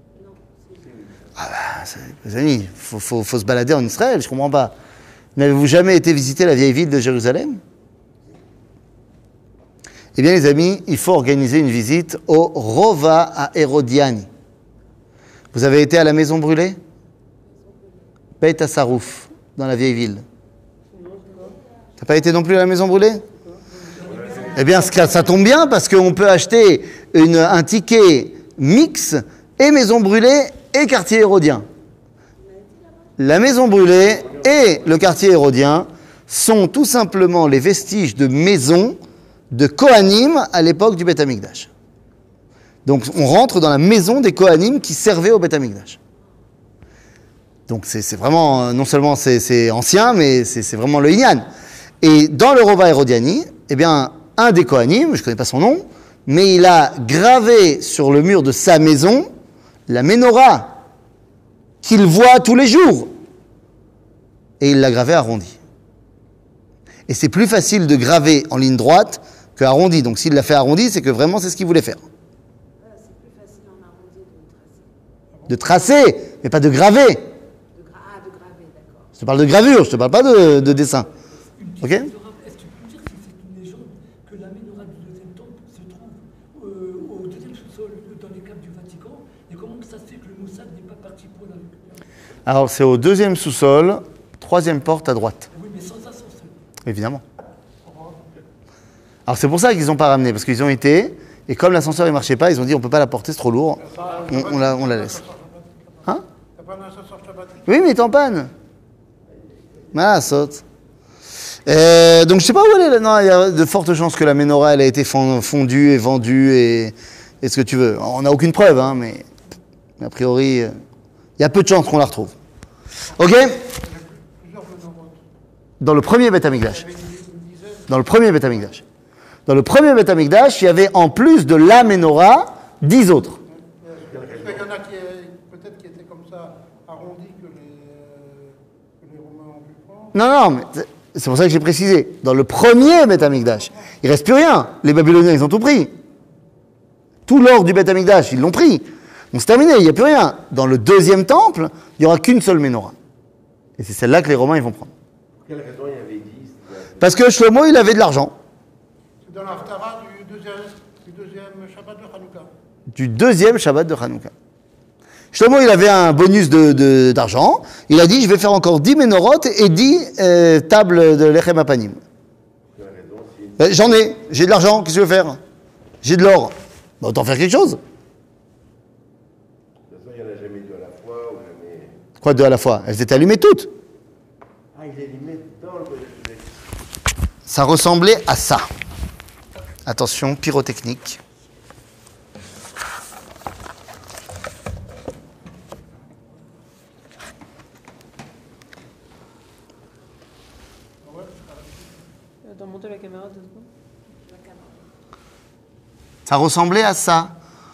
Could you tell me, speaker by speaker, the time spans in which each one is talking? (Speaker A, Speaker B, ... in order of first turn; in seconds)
Speaker A: 0.2-1.0, 17.4-18.1, 21.2-22.0, 24.1-25.3, 32.4-33.1, 72.8-74.9, 77.7-79.1, 204.2-204.8
Speaker B: 1.4-4.7, 5.3-7.6, 10.1-14.3, 15.5-16.8, 18.4-20.2, 22.0-23.2, 24.5-31.6, 33.2-39.0, 39.5-41.7, 42.8-46.0, 47.7-51.5, 52.0-59.3, 59.9-60.7, 61.8-63.1, 64.6-65.5, 67.1-72.0, 75.5-77.2, 79.2-81.1, 81.8-82.1, 92.5-95.5, 96.8-97.2, 99.3-105.2, 107.7-108.5, 109.9-110.6, 111.7-119.2, 120.0-120.7, 121.4-122.3, 123.2-123.6, 125.8-126.8, 127.9-128.8, 129.5-133.4, 140.1-145.9, 147.2-152.9, 153.8-154.9, 157.0-158.3, 162.9-164.3, 165.3-172.0, 173.6-175.4, 176.0-177.8, 182.2-183.7, 187.5-188.7, 189.8-191.2, 206.2-207.3
Speaker C: 20.9-21.6, 23.3-24.5, 202.4-203.7
Speaker D: 24.1-24.6, 34.3-34.7, 109.4-109.9, 134.0-134.7, 155.4-157.1, 172.7-174.1, 179.9-181.9, 184.7-186.5
Speaker E: 81.6-92.0, 95.5-96.5
Speaker F: 97.8-98.2, 103.8-107.8, 123.7-125.2, 126.5-128.6, 133.5-140.2, 159.2-162.5, 201.0-202.0